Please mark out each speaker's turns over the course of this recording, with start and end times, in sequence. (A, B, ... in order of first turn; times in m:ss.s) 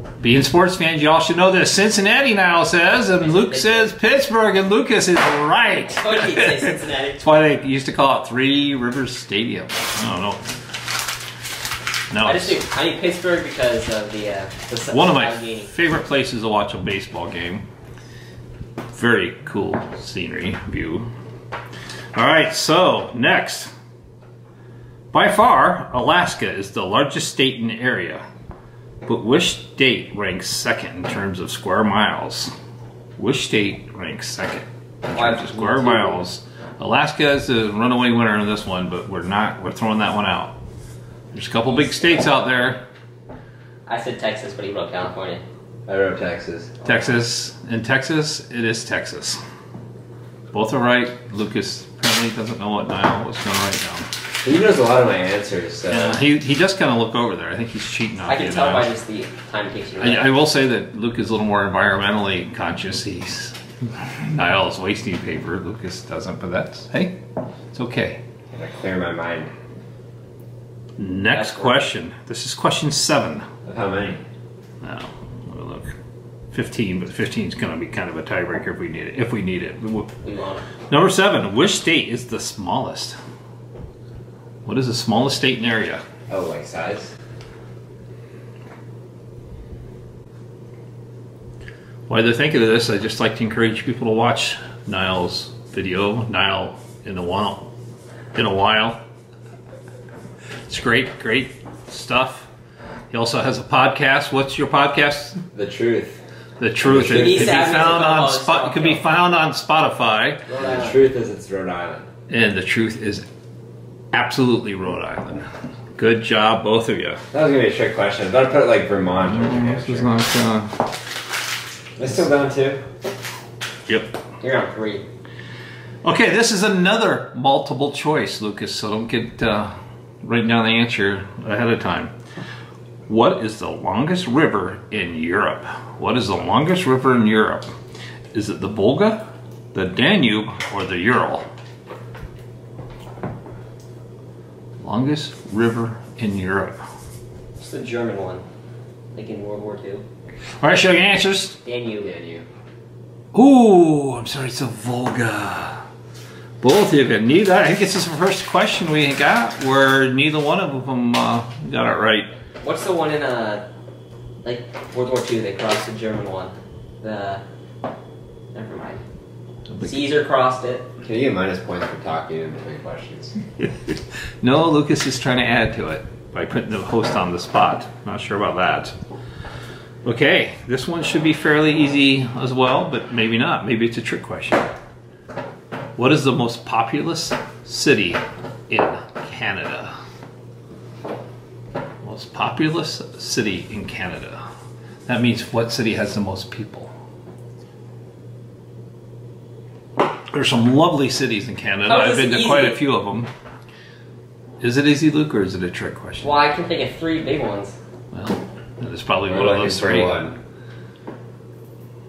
0:00.2-0:10.5 A
0:03.2-0:03.9 B
0:05.8-0:07.2 B
0:12.1-0:12.6 A
0:12.2-0:15.7 B
0:14.9-0:17.7 A
0:18.9-0:21.1 A
0:22.1-0:23.7 A
0:25.1-0:28.2 A
0:29.0-0:32.5 A
0:33.2-0:40.6 A
0:35.1-0:36.2 B
0:41.3-0:42.8 A
0:43.9-0:45.4 B
0:45.9-0:46.7 C
0:46.8-0:49.4 A
0:50.5-0:54.1 A
0:54.4-0:56.2 C
0:55.9-0:58.9 A
0:58.3-1:00.3 B
1:00.0-1:07.2 A
1:07.7-1:08.2 A
1:08.5-1:09.5 C
1:11.0-1:13.4 A
1:11.3-1:11.8 B
1:13.6-1:14.2 C
1:14.8-1:15.9 A
1:16.5-1:20.1 A
1:20.2-1:20.6 B
1:20.9-1:23.2 A
1:24.6-1:26.0 A
1:26.3-1:27.1 C
1:32.1-1:37.7 A
1:38.3-1:39.0 A
1:40.7-1:42.5 A
1:43.1-1:45.4 A
1:45.5-1:46.2 C
1:46.6-1:50.4 A
1:46.8-1:47.7 C
1:46.9-1:49.0 B
1:50.5-1:51.0 B
1:50.6-1:52.0 C
1:52.3-1:53.2 A
1:54.1-1:55.4 A
1:56.0-1:57.2 A
1:57.3-2:00.1 C
1:59.2-2:00.8 A
2:02.0-2:02.8 C
2:03.9-2:04.2 A
2:04.4-2:05.0 B
2:06.0-2:12.1 A
2:13.1-2:17.7 A
2:18.3-2:21.4 A
2:24.8-2:26.8 A
2:27.6-2:28.4 B
2:29.1-2:30.0 B
2:30.6-2:31.6 A
2:31.6-2:32.1 B
2:32.0-2:32.4 C
2:33.3-2:35.8 A
2:36.6-2:42.3 A
2:42.6-2:43.6 B
2:44.4-2:47.4 B
2:48.5-2:49.0 B
2:49.7-2:50.0 A
2:49.8-2:50.9 B
2:51.0-2:53.3 C
2:53.6-2:58.9 A
3:00.0-3:04.7 A
3:06.0-3:09.9 A
3:12.0-3:14.4 A
3:15.1-3:16.9 A
3:20.3-3:23.3 A
3:21.8-3:22.8 B
3:24.6-3:26.4 A
3:26.2-3:27.8 B
3:28.1-3:30.2 A
3:29.3-3:30.4 C